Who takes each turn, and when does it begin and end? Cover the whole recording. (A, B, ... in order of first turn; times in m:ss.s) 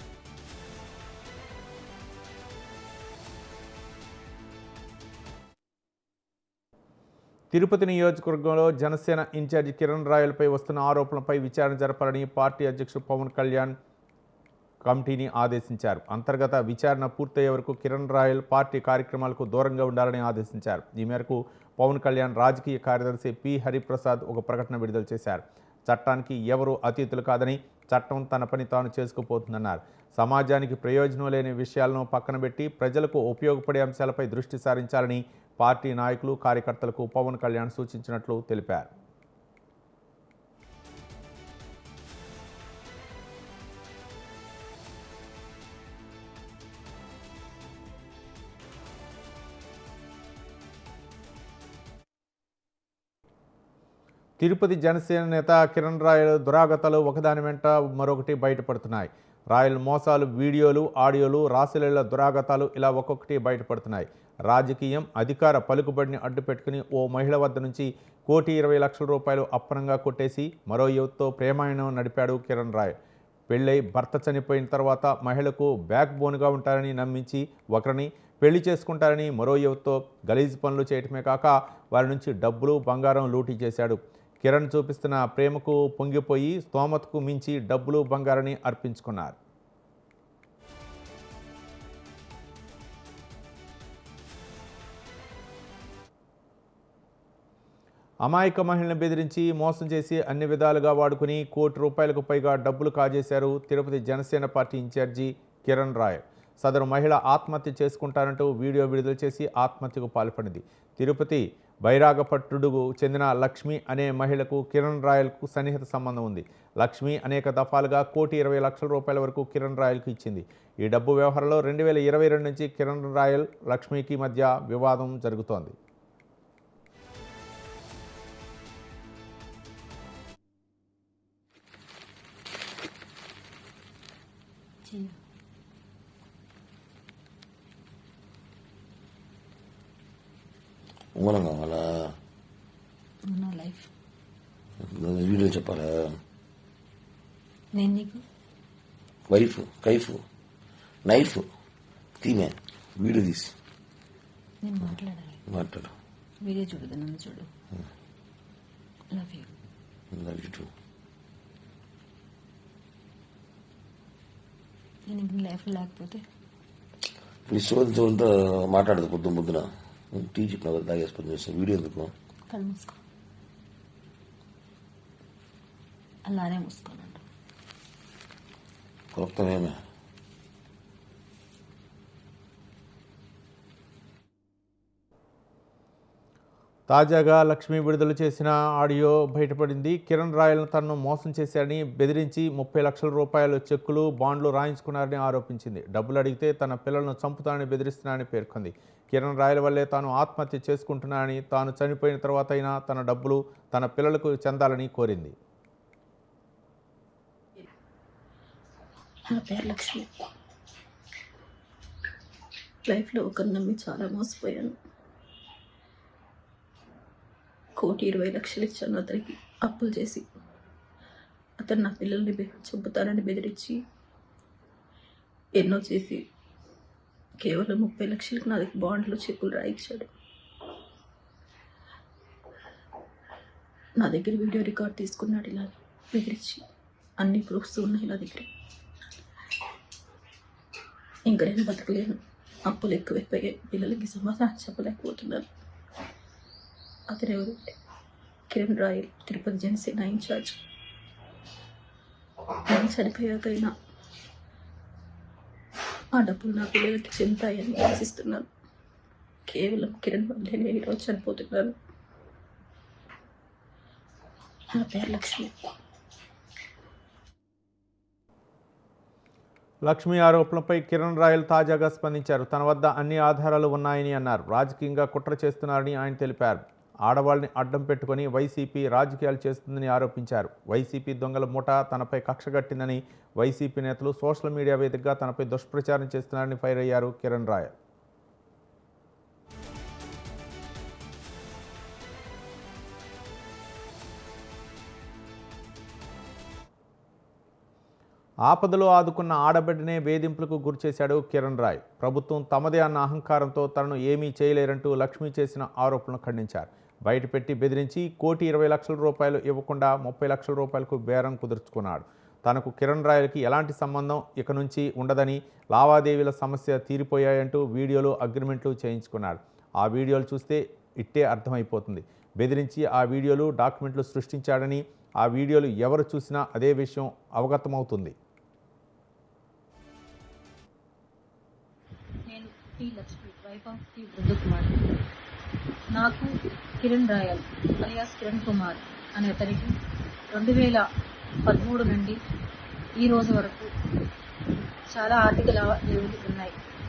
0:07.5-0:13.8 A
0:14.9-0:38.9 A
0:54.4-1:13.0 A
1:13.5-1:29.4 A
1:38.2-2:05.8 A
2:14.9-2:15.1 B
2:21.2-2:22.2 C
2:23.3-2:23.9 B
2:24.8-2:26.2 C
2:27.8-2:28.2 B
2:29.3-2:30.2 C
2:31.0-2:31.5 C
2:32.2-2:33.5 C
2:34.6-2:35.4 B
2:35.5-2:35.9 C
2:36.4-2:37.5 B
2:39.1-2:39.5 B
2:40.1-2:40.7 C
2:45.1-2:46.2 B
2:47.5-2:52.1 C
2:52.5-2:53.0 B
2:56.3-2:57.2 B
2:59.1-2:59.8 C
3:06.9-3:25.3 A
3:29.3-3:30.3 D
3:32.9-3:34.8 D
3:37.8-3:40.2 D
3:41.6-3:43.8 D
3:45.6-3:46.2 D
3:47.4-3:50.1 D
3:54.0-3:56.6 D
3:57.2-3:58.5 D
4:01.3-4:05.5 D
4:07.1-4:07.8 D
4:08.5-4:10.6 D
4:12.7-4:13.7 D
4:16.1-4:18.5 D
4:19.5-4:21.8 D
4:24.8-4:25.7 D
4:29.9-4:47.7 A
4:58.5-5:28.1 A
5:32.3-5:34.8 E
5:35.9-5:36.3 E
5:36.8-5:39.7 E
5:40.3-5:40.8 E
5:41.4-5:42.2 E
5:43.0-5:43.7 E
5:44.9-5:46.5 E